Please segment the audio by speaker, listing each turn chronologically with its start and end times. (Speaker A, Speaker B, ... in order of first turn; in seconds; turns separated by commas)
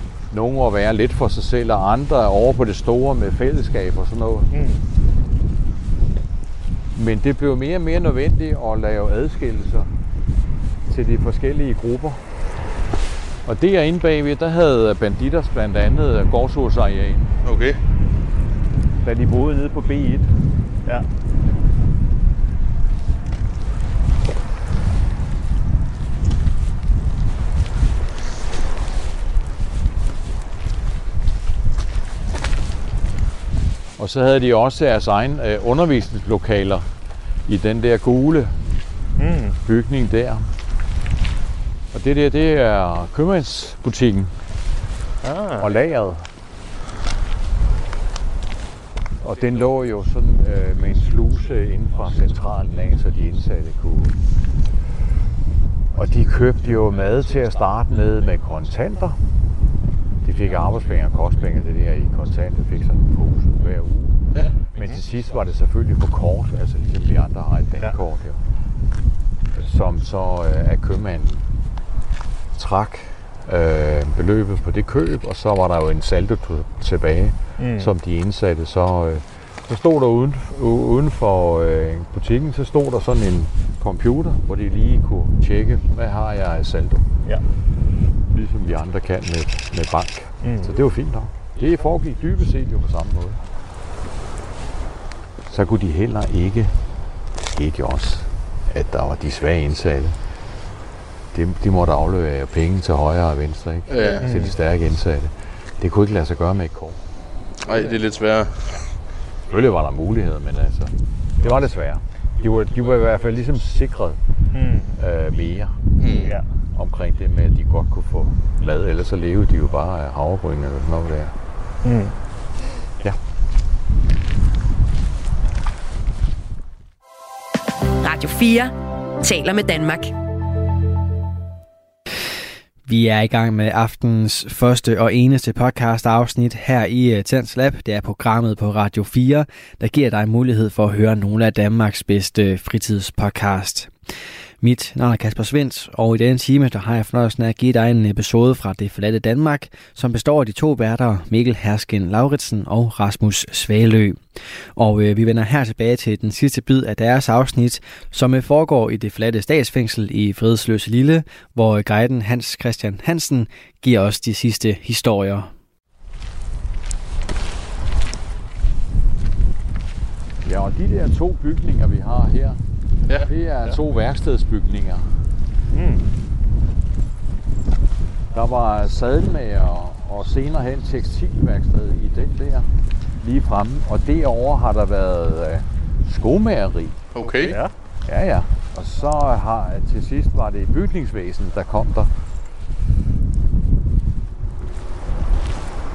Speaker A: 0.3-4.5, Speaker A: 7.0-9.9, Speaker A: 10.9-12.5, Speaker A: 13.4-17.3, Speaker B: 17.4-17.8, Speaker A: 19.0-20.3, Speaker A: 34.0-36.9, Speaker A: 37.5-38.6, Speaker C: 39.2-39.6, Speaker A: 39.6-40.5, Speaker A: 41.9-44.4, Speaker A: 45.6-46.3, Speaker A: 49.2-54.2, Speaker A: 55.9-59.2, Speaker A: 60.2-64.2, Speaker A: 64.8-68.4, Speaker A: 69.5-71.5, Speaker A: 72.5-87.1, Speaker C: 77.6-77.9, Speaker A: 88.3-93.4, Speaker C: 90.4-90.7, Speaker A: 95.5-96.8, Speaker A: 97.4-100.2, Speaker A: 101.3-107.0, Speaker B: 103.9-104.3, Speaker C: 104.2-104.5, Speaker B: 107.6-108.9, Speaker A: 109.5-114.2, Speaker C: 114.6-114.9, Speaker A: 115.0-115.8, Speaker B: 116.0-116.4, Speaker A: 116.7-121.4, Speaker C: 121.8-122.2, Speaker D: 128.0-130.1, Speaker E: 132.9-143.9, Speaker E: 144.6-165.5, Speaker A: 170.4-172.6, Speaker A: 173.2-175.2, Speaker A: 178.3-182.7, Speaker A: 183.2-187.0, Speaker B: 187.1-187.6, Speaker A: 188.1-192.1